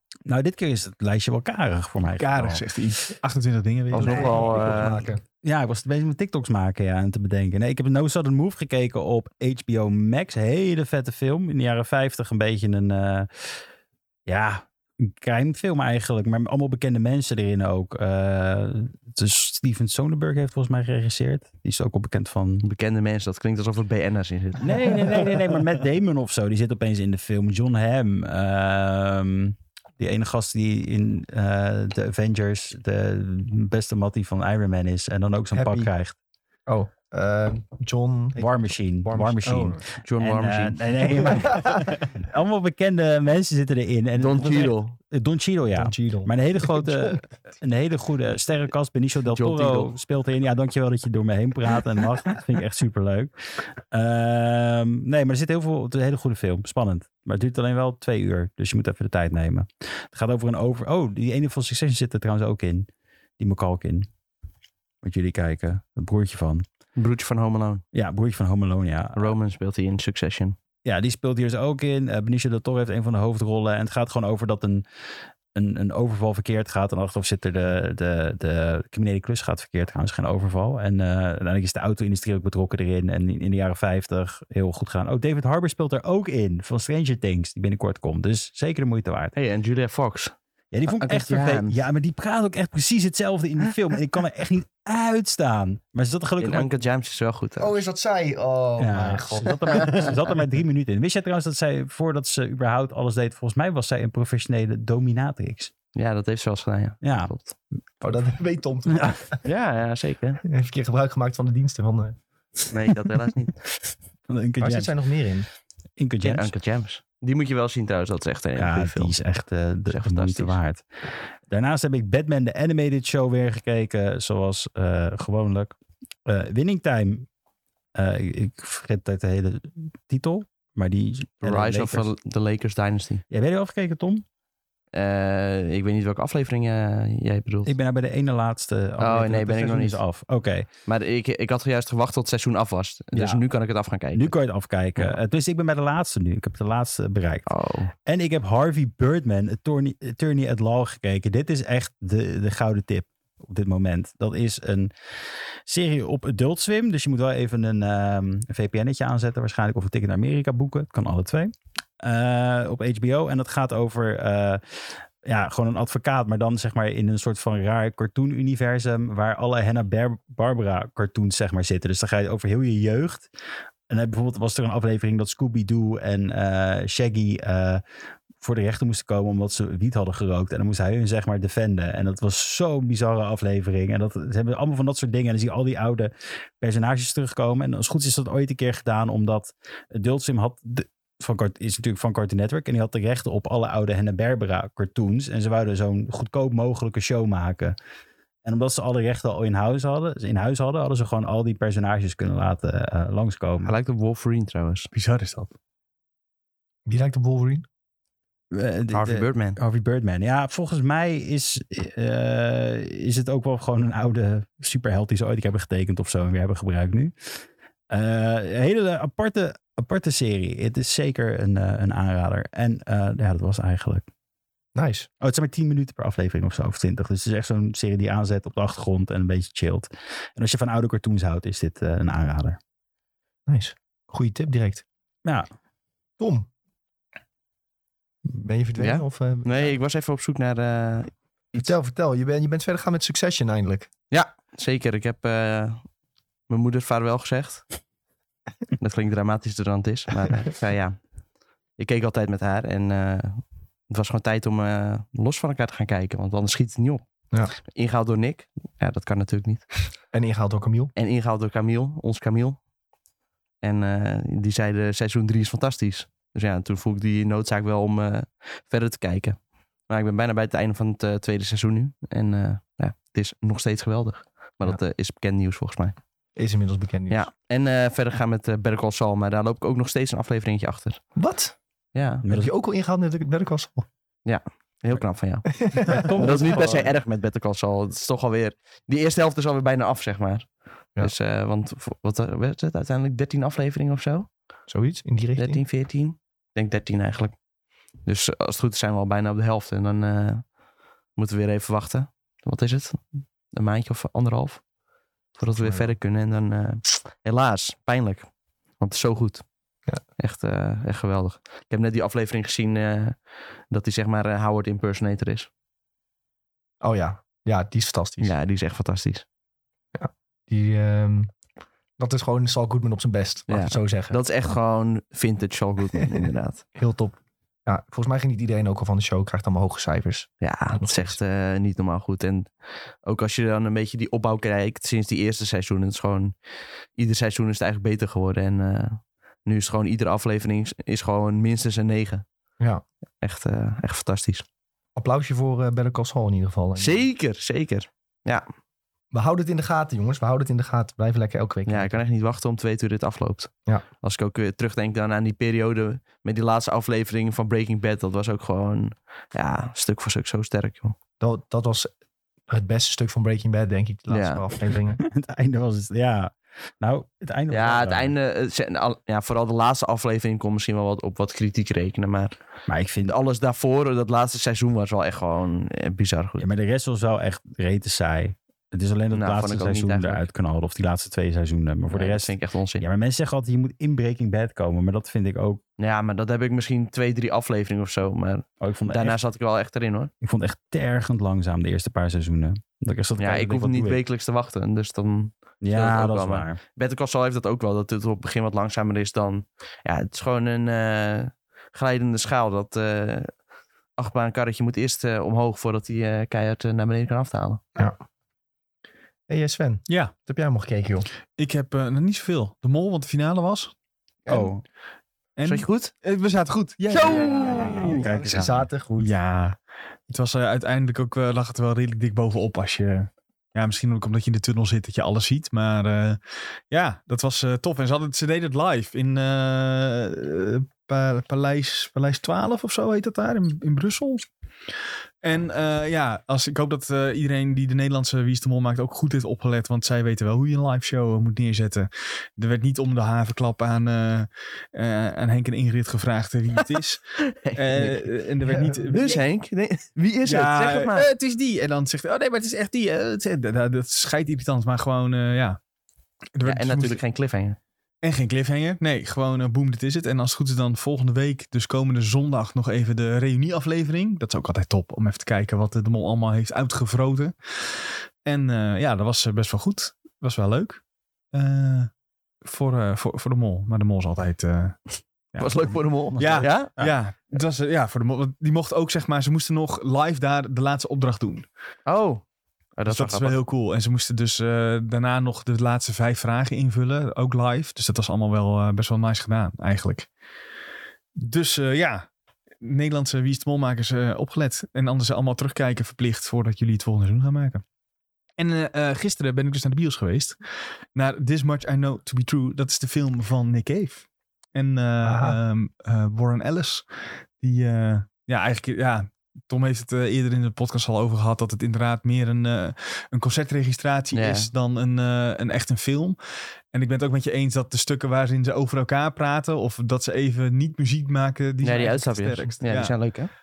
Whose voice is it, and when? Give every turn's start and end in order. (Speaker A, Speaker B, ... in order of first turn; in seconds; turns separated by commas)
Speaker A: 0.3-2.7, Speaker B: 2.2-4.5, Speaker C: 3.9-5.2, Speaker D: 3.9-5.0, Speaker A: 5.4-13.6, Speaker A: 14.2-22.6, Speaker D: 22.6-25.2, Speaker A: 24.6-36.1, Speaker C: 35.5-35.9, Speaker C: 36.7-39.7, Speaker A: 38.4-62.9, Speaker B: 39.4-39.8, Speaker D: 40.0-41.3, Speaker C: 41.3-41.7, Speaker D: 44.1-45.0, Speaker C: 45.7-47.2, Speaker D: 49.3-49.9, Speaker A: 63.4-64.1, Speaker A: 65.0-66.6, Speaker D: 67.0-67.8, Speaker A: 67.9-69.3, Speaker D: 69.2-70.5, Speaker A: 70.8-74.8, Speaker A: 75.5-89.3, Speaker D: 89.3-90.3, Speaker A: 90.7-96.7, Speaker D: 90.9-91.8, Speaker D: 96.4-97.8, Speaker C: 97.6-100.1, Speaker A: 98.8-105.7, Speaker D: 105.9-107.5, Speaker A: 107.0-107.3, Speaker C: 108.0-109.4, Speaker A: 108.9-109.2, Speaker D: 109.4-110.4, Speaker C: 110.4-112.2, Speaker D: 112.7-113.5, Speaker A: 114.3-114.9, Speaker C: 114.6-115.5, Speaker A: 116.0-116.5, Speaker D: 116.2-119.1, Speaker A: 118.5-120.8, Speaker D: 119.9-120.6, Speaker A: 121.5-127.2, Speaker A: 127.9-132.1, Speaker D: 131.4-133.2, Speaker A: 133.3-134.2, Speaker D: 134.9-137.7, Speaker A: 137.6-140.7, Speaker D: 139.0-140.0, Speaker D: 140.8-144.4, Speaker A: 143.1-143.4, Speaker A: 144.1-147.5, Speaker D: 147.4-147.9, Speaker A: 148.1-154.9, Speaker A: 155.7-173.3, Speaker A: 173.9-177.8, Speaker A: 178.4-197.7, Speaker A: 198.4-203.7, Speaker D: 203.6-204.9, Speaker B: 204.9-205.5, Speaker C: 206.8-207.6, Speaker A: 208.5-224.1, Speaker D: 208.9-209.6, Speaker C: 224.7-225.1, Speaker A: 225.2-232.6, Speaker C: 233.5-234.8, Speaker C: 236.2-236.5, Speaker C: 238.2-239.7, Speaker D: 238.8-241.7, Speaker C: 241.5-243.9, Speaker D: 244.1-245.8, Speaker D: 246.5-247.7, Speaker D: 248.8-251.0, Speaker D: 251.8-257.0, Speaker D: 257.6-259.8, Speaker C: 260.1-260.9, Speaker D: 260.9-262.6, Speaker D: 263.6-275.9, Speaker C: 276.4-277.2, Speaker D: 277.1-281.0, Speaker C: 281.1-281.5, Speaker D: 281.9-282.2, Speaker A: 282.2-282.5, Speaker C: 282.3-283.9, Speaker D: 284.2-294.3, Speaker C: 285.6-286.9, Speaker A: 285.9-286.9, Speaker C: 294.7-295.6, Speaker D: 295.4-297.4, Speaker D: 298.0-300.5, Speaker D: 301.1-304.6, Speaker D: 305.4-308.3, Speaker C: 305.6-305.9, Speaker D: 308.8-309.4, Speaker D: 310.2-315.5, Speaker C: 316.8-318.3, Speaker D: 318.2-319.2, Speaker C: 319.9-321.3, Speaker C: 322.0-324.2, Speaker D: 323.5-326.6, Speaker C: 326.8-331.2, Speaker D: 330.4-332.5, Speaker D: 333.0-336.3, Speaker D: 336.9-342.2, Speaker D: 343.2-344.4, Speaker C: 344.9-347.1, Speaker D: 346.8-348.4, Speaker C: 349.1-352.0, Speaker D: 351.6-360.9, Speaker C: 361.2-361.9, Speaker C: 362.5-365.0, Speaker D: 364.1-364.4, Speaker A: 364.9-368.1, Speaker D: 367.5-372.4, Speaker A: 372.7-373.1, Speaker D: 373.0-376.5, Speaker A: 376.4-385.6, Speaker D: 379.1-380.2, Speaker D: 381.9-382.8, Speaker D: 385.8-390.1, Speaker A: 388.6-389.2, Speaker A: 390.2-394.0, Speaker D: 393.2-403.4, Speaker A: 395.6-396.6, Speaker D: 404.0-407.6, Speaker C: 409.3-411.1, Speaker B: 409.9-410.1, Speaker B: 411.3-413.7, Speaker C: 414.3-414.5, Speaker A: 414.3-414.6, Speaker B: 415.4-418.0, Speaker D: 415.4-415.9, Speaker D: 416.9-418.0, Speaker C: 416.9-419.1, Speaker A: 417.6-418.7, Speaker B: 419.0-434.2, Speaker B: 435.2-449.2, Speaker D: 447.2-448.1, Speaker C: 448.4-448.9, Speaker D: 448.9-451.1, Speaker B: 450.2-455.6, Speaker B: 456.3-457.0, Speaker D: 456.4-457.6, Speaker B: 458.0-470.8, Speaker B: 471.3-471.9, Speaker B: 472.4-481.5, Speaker D: 475.4-476.7, Speaker A: 476.1-476.9, Speaker D: 481.9-482.2, Speaker D: 482.8-483.4, Speaker B: 482.9-490.1, Speaker B: 491.1-492.1, Speaker B: 492.6-497.6, Speaker B: 498.4-516.2, Speaker C: 505.0-505.4, Speaker D: 514.1-514.5, Speaker B: 516.7-523.2, Speaker D: 521.6-523.3